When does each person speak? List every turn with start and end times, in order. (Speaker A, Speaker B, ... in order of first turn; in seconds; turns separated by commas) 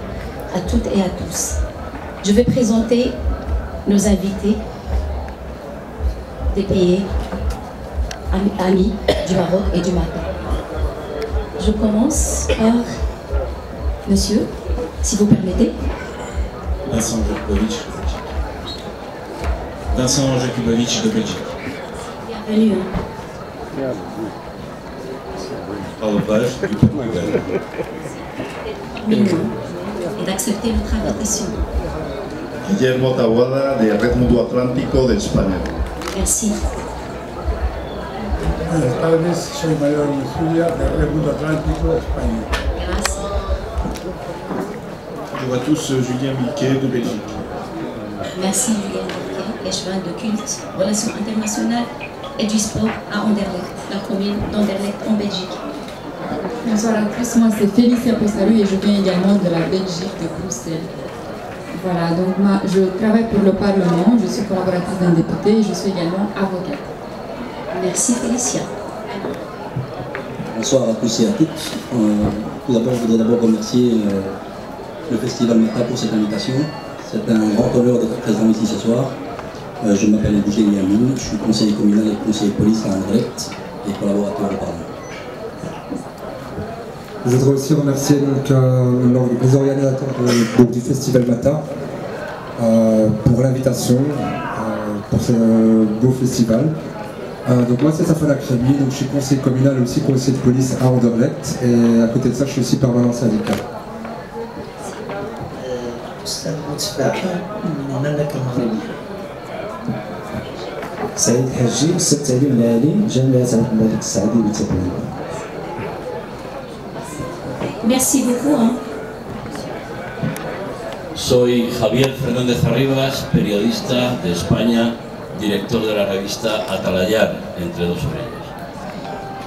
Speaker A: 0.5-1.6, Speaker A: 2.2-3.2, Speaker A: 3.9-4.6, Speaker A: 6.5-7.1, Speaker A: 8.3-10.3, Speaker A: 11.6-12.9, Speaker A: 14.1-14.5, Speaker A: 15.0-15.7, Speaker B: 16.9-18.3, Speaker B: 19.9-21.5, Speaker A: 22.3-22.9, Speaker B: 26.0-27.4, Speaker A: 29.0-29.6, Speaker A: 30.2-31.6, Speaker C: 32.6-35.7, Speaker A: 36.1-36.6, Speaker D: 38.7-42.5, Speaker A: 42.8-43.3, Speaker B: 45.3-47.5, Speaker A: 48.3-55.6, Speaker E: 56.6-60.9, Speaker E: 61.7-66.9, Speaker A: 67.7-68.7, Speaker F: 70.5-74.3, Speaker F: 75.1-79.1, Speaker F: 79.8-84.9, Speaker G: 87.2-91.6, Speaker G: 92.6-96.7, Speaker G: 97.5-103.6, Speaker H: 111.2-115.2, Speaker A: 117.8-118.8, Speaker I: 121.1-128.5